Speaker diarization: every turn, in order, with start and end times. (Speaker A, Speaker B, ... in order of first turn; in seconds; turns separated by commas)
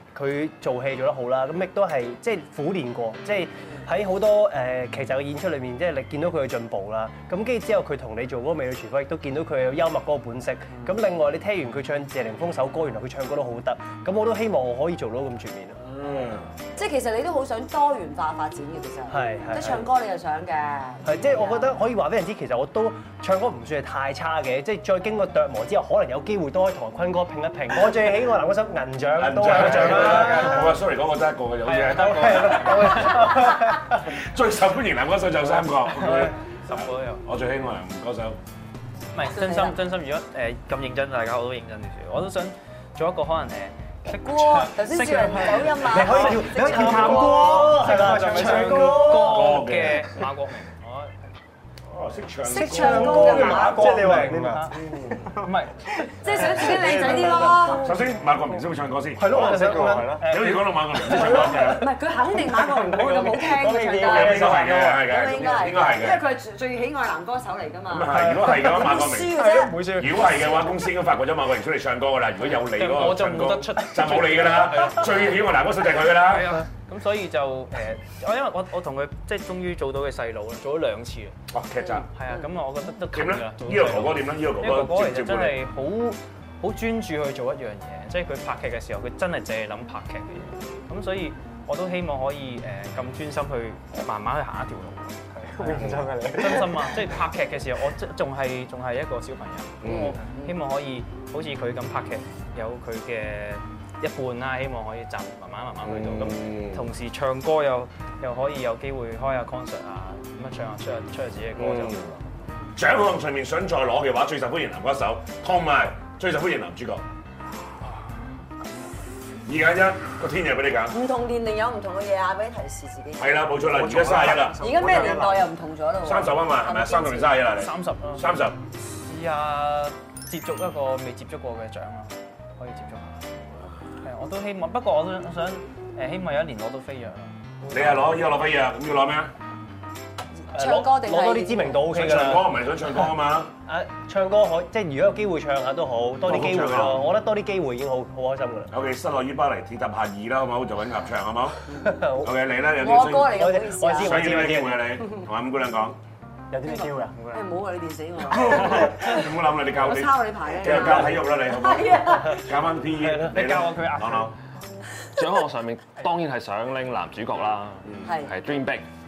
Speaker A: 0.1-15.8, Speaker B: 15.8-16.5, Speaker C: 16.8-21.7, Speaker A: 19.1-19.9, Speaker A: 21.0-30.8, Speaker B: 29.1-38.4, Speaker D: 31.6-33.4, Speaker A: 32.4-33.8, Speaker D: 36.1-37.2, Speaker D: 39.1-51.2, Speaker C: 39.3-39.8, Speaker C: 44.2-47.8, Speaker E: 45.0-45.2, Speaker A: 45.8-49.4, Speaker E: 45.9-49.0, Speaker B: 48.7-50.2, Speaker B: 51.9-55.2, Speaker C: 52.4-54.2, Speaker A: 52.5-54.7, Speaker D: 53.9-56.7, Speaker E: 54.8-57.6, Speaker C: 56.2-58.0, Speaker B: 56.5-62.0, Speaker A: 57.0-57.3, Speaker A: 59.1-60.4, Speaker E: 59.2-60.4, Speaker D: 60.2-61.1, Speaker E: 61.0-61.6, Speaker C: 61.2-70.0, Speaker E: 62.4-65.0, Speaker B: 64.0-66.3, Speaker B: 67.9-76.7, Speaker A: 68.2-68.5, Speaker D: 69.4-70.2, Speaker D: 72.7-75.5, Speaker D: 76.2-81.4, Speaker B: 81.5-82.1, Speaker C: 81.8-82.1, Speaker D: 82.1-112.5, Speaker B: 83.1-85.6, Speaker E: 95.3-97.0, Speaker B: 99.8-100.2, Speaker C: 100.2-100.5, Speaker B: 105.8-106.9, Speaker B: 111.6-112.0, Speaker B: 112.8-117.0, Speaker B: 119.5-121.0, Speaker C: 120.9-127.4, Speaker B: 123.2-125.2, Speaker E: 123.6-125.5, Speaker B: 126.0-128.6, Speaker D: 127.5-128.3, Speaker D: 128.8-133.2, Speaker D: 134.0-137.4, Speaker B: 137.7-139.3, Speaker C: 140.5-141.9, Speaker A: 140.5-143.1, Speaker B: 141.9-143.5, Speaker A: 143.7-148.7, Speaker B: 146.2-147.1, Speaker B: 148.7-156.0, Speaker C: 151.7-152.0, Speaker A: 151.8-152.3, Speaker C: 152.7-154.5, Speaker A: 153.3-155.0, Speaker E: 156.5-157.6, Speaker C: 156.6-162.5, Speaker B: 158.3-164.3, Speaker A: 163.0-163.3, Speaker D: 163.2-164.3, Speaker F: 165.1-168.9, Speaker C: 168.0-168.3